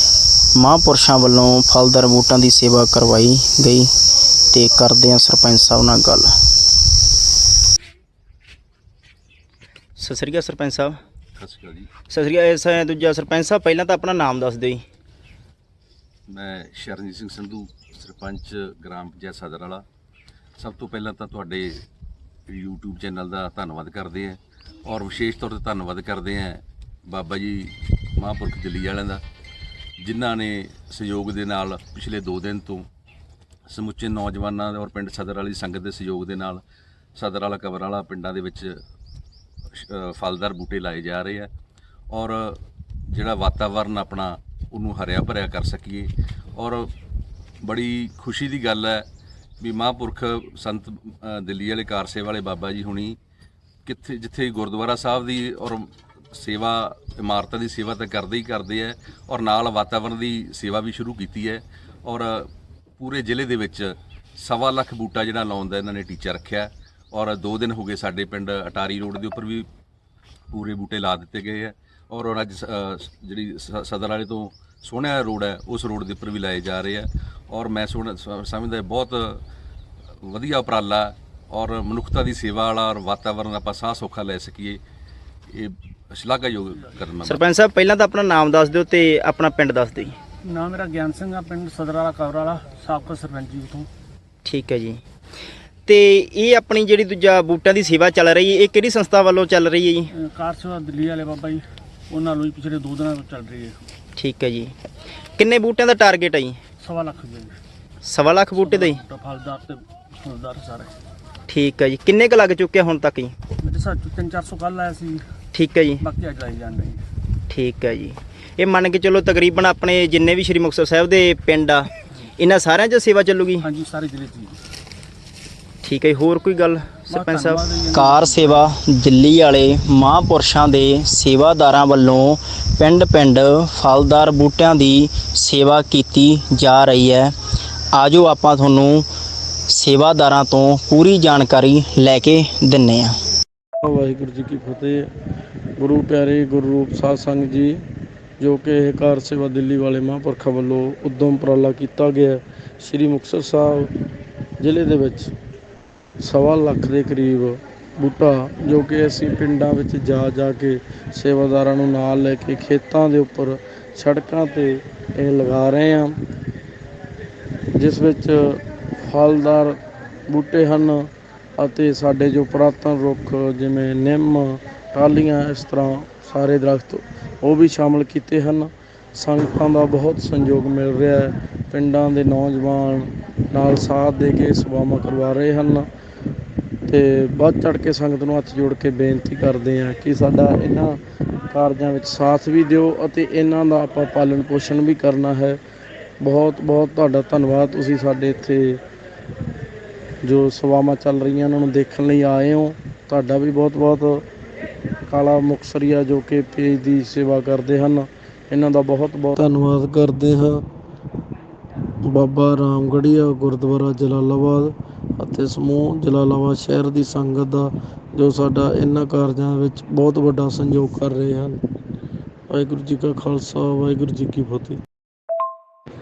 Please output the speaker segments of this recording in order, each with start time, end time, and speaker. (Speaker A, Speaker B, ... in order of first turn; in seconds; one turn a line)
Speaker A: 0.6-3.9
Speaker A: 4.5-6.4
Speaker A: 10.0-11.0
Speaker B: 11.4-11.9
Speaker A: 12.1-14.8
Speaker B: 16.3-19.8
Speaker B: 20.6-21.8
Speaker B: 22.5-29.2
Speaker B: 30.0-32.9
Speaker B: 33.7-36.6
Speaker B: 37.2-38.7
Speaker B: 39.8-41.5
Speaker B: 42.1-46.9
Speaker B: 47.6-49.1
Speaker B: 49.6-53.2
Speaker B: 53.8-69.7
Speaker B: 70.5-79.4
Speaker B: 80.2-84.8
Speaker B: 85.5-87.4
Speaker A: 87.2-90.2
Speaker C: 90.4-93.9
Speaker A: 94.5-95.0
Speaker A: 95.9-100.1
Speaker C: 100.2-103.8
Speaker A: 104.2-104.7
Speaker A: 105.4-106.6
Speaker C: 106.8-107.6
Speaker A: 108.0-109.0
Speaker C: 108.6-110.9
Speaker A: 111.5-113.3
Speaker C: 113.6-115.2
Speaker A: 115.5-116.0
Speaker C: 116.0-117.0
Speaker A: 117.5-123.7
Speaker C: 123.6-124.6
Speaker A: 125.8-137.3
Speaker C: 127.1-128.7
Speaker A: 137.9-139.0
Speaker A: 139.7-143.2
Speaker D: 143.8-145.1
Speaker D: 145.8-147.8
Speaker D: 148.4-153.9
Speaker D: 154.6-155.3
Speaker D: 156.2-166.2
Speaker D: 167.8-169.8
Speaker D: 170.3-185.9
Speaker D: 186.9-191.0
Speaker D: 191.5-195.6
Speaker D: 196.2-198.8
Speaker D: 200.2-204.2
Speaker D: 205.1-210.6
Speaker D: 212.0-221.6
Speaker D: 222.5-224.8